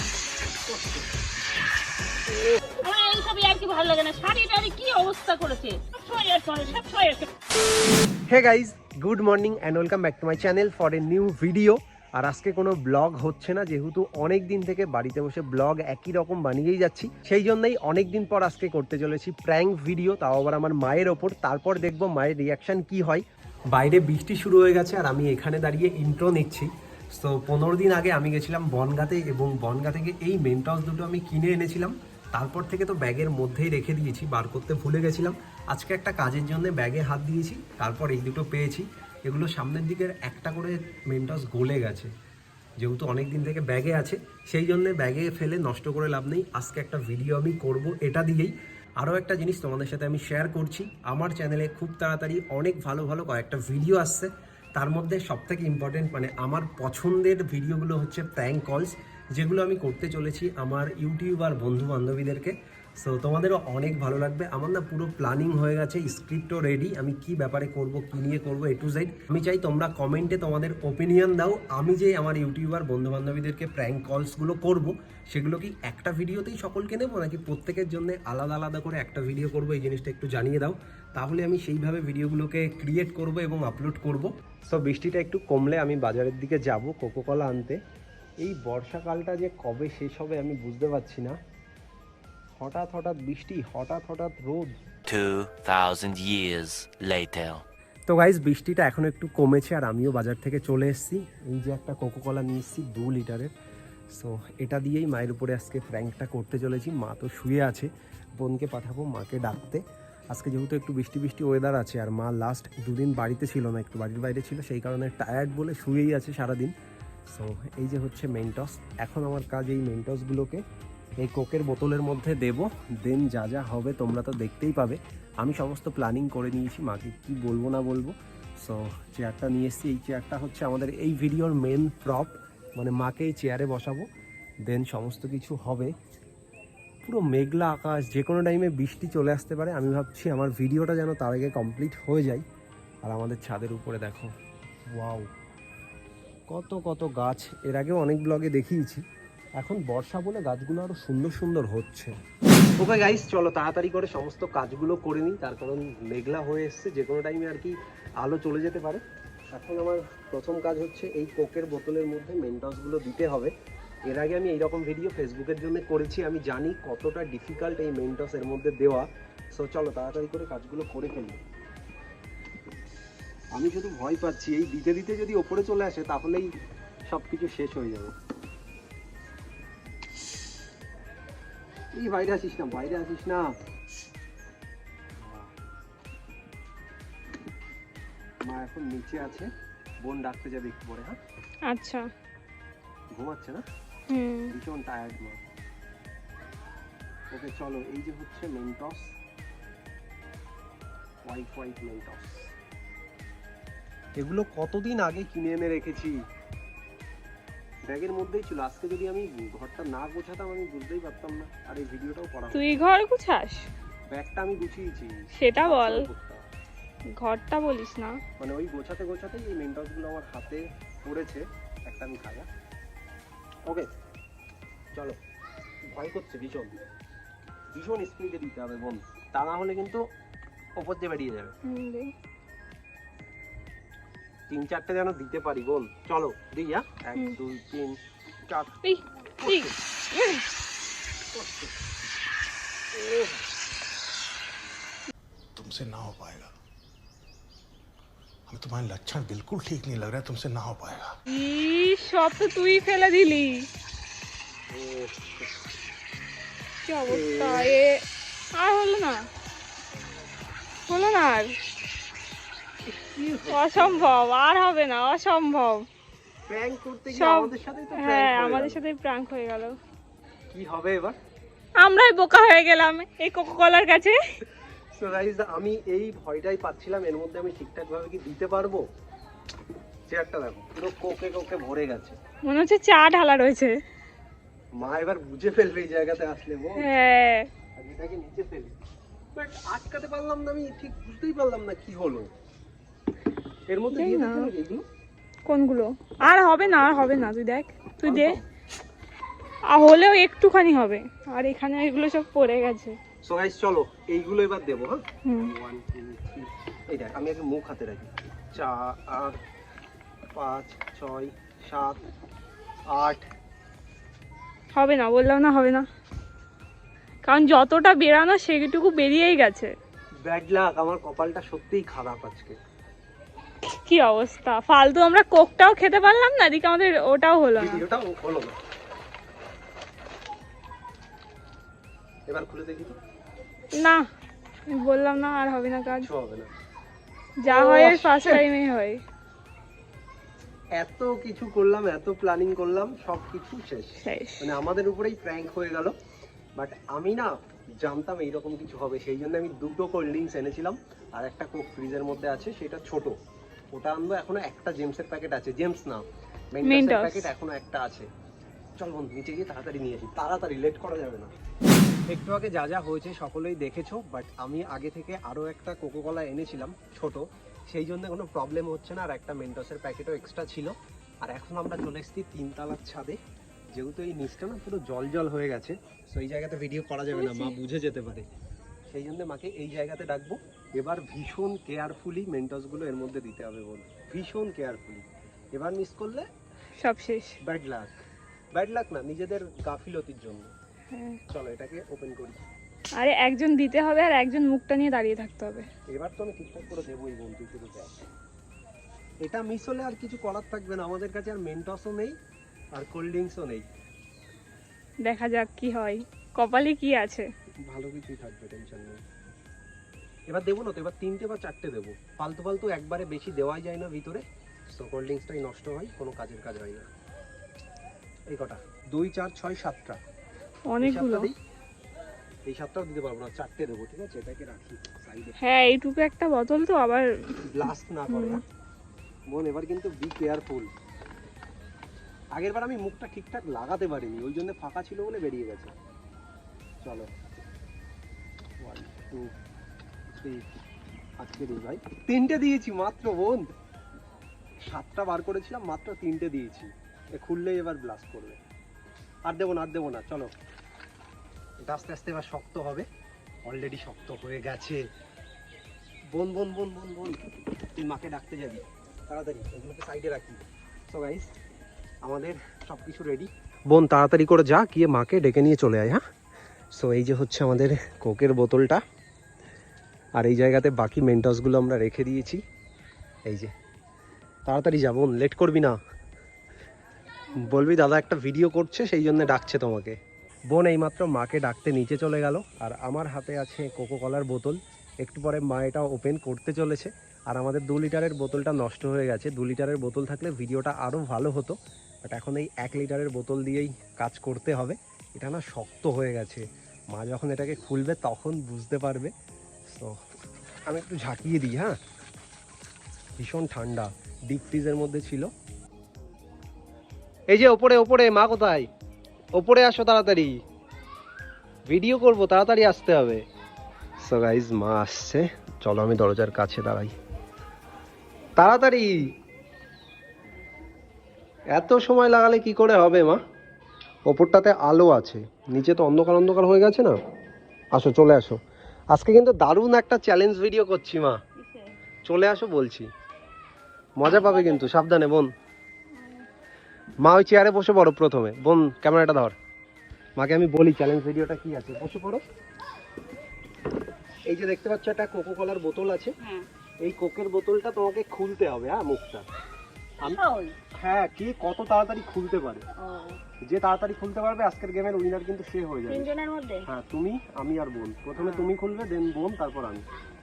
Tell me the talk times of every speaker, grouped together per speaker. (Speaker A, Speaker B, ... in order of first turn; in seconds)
Speaker A: 0.7-1.1, 8.3-42.1, 42.8-87.8, 88.4-91.3, 92.6-94.7, 98.1-103.5, 104.1-107.9, 108.4-116.7, 117.3-120.6, 121.2-128.1, 128.6-134.0, 134.7-135.9, 137.0-142.4, 143.0-144.3, 144.9-145.3, 146.5-149.0, 149.6-152.1, 152.8-159.0, 159.5-163.5, 164.1-171.4, 173.5-176.5, 177.1-178.1, 181.9-183.5, 185.2-185.5, 188.4-189.4, 190.0-191.2, 193.1-193.6, 194.5-195.4, 197.3-199.1, 201.2-202.5, 204.2-206.1, 207.9-212.8, 214.1-216.4, 218.4-222.5, 225.9-226.7, 227.7-230.0, 230.8-231.5, 234.5-237.9, 238.5-238.9, 239.4-239.8, 241.3-241.8, 242.9-243.4, 254.7-255.7, 257.1-257.8, 262.9-264.1, 266.5-268.8, 270.5-271.1, 275.0-278.8, 280.1-282.1, 284.8-286.9, 287.8-288.7, 289.3-292.3, 293.7-294.8, 296.3-297.1, 298.0-298.4, 303.2-309.4, 310.4-312.0, 312.9-313.2, 320.2-322.5, 327.6-328.5, 332.3-332.9, 335.9-336.5, 337.5-338.4, 340.8-345.9, 346.6-347.3, 347.8-353.1, 353.7-356.0, 356.5-358.1, 358.8-361.3, 362.1-370.7, 371.2-373.2, 373.7-378.2, 378.9-386.2, 387.4-387.9, 388.5-390.5, 391.3-392.4, 395.9-397.9, 399.2-402.1, 402.7-403.6, 407.7-409.0, 410.3-416.9, 418.3-420.0, 420.8-421.3, 422.5-425.4, 427.4-428.4, 429.3-430.7, 432.3-435.7, 436.8-437.1, 438.6-439.3, 440.1-440.4, 441.2-443.4, 444.7-448.4, 449.2-450.3, 451.6-452.9, 453.4-454.8, 456.1-457.2, 457.8-461.3, 462.0-466.0, 466.7-468.8, 470.1-472.4, 474.4-475.8, 477.4-479.9, 480.5-496.4, 496.9-499.1, 500.7-501.8, 503.2-505.3, 507.3-508.7, 509.3-510.3, 511.7-513.2, 514.0-516.9, 518.4-518.9, 521.5-523.2, 524.1-526.9, 527.7-528.4, 528.9-531.2, 532.0-532.9, 534.0-535.3, 537.0-539.3, 540.2-542.2, 544.3-546.1, 546.8-549.2, 550.8-552.6, 553.5-556.1, 556.6-559.8
Speaker B: 2.8-7.3, 531.4-531.7, 534.0-534.7, 535.9-536.2, 550.0-550.5, 552.8-553.2, 555.9-556.6, 558.2-558.5
Speaker C: 95.1-97.6
Speaker D: 191.7-192.1, 194.1-194.5, 212.5-213.7, 215.3-216.0, 217.2-218.1, 231.7-232.1, 238.8-240.4, 251.3-253.7, 256.8-258.0, 258.6-259.2, 260.9-261.5, 263.5-265.8, 267.1-269.7, 271.8-274.1, 282.4-283.7, 286.8-287.5, 293.9-294.5, 295.4-298.4, 299.7-302.9, 305.2-305.5, 314.7-315.8, 317.2-319.7, 323.7-327.8, 334.7-336.1, 337.4-339.0, 344.0-344.5, 356.6-357.3, 377.1-377.5, 386.8-387.3, 390.9-391.2, 393.0-395.6, 405.0-407.2, 420.7-421.3, 425.4-428.4
Speaker E: 245.6-246.5, 248.5-251.1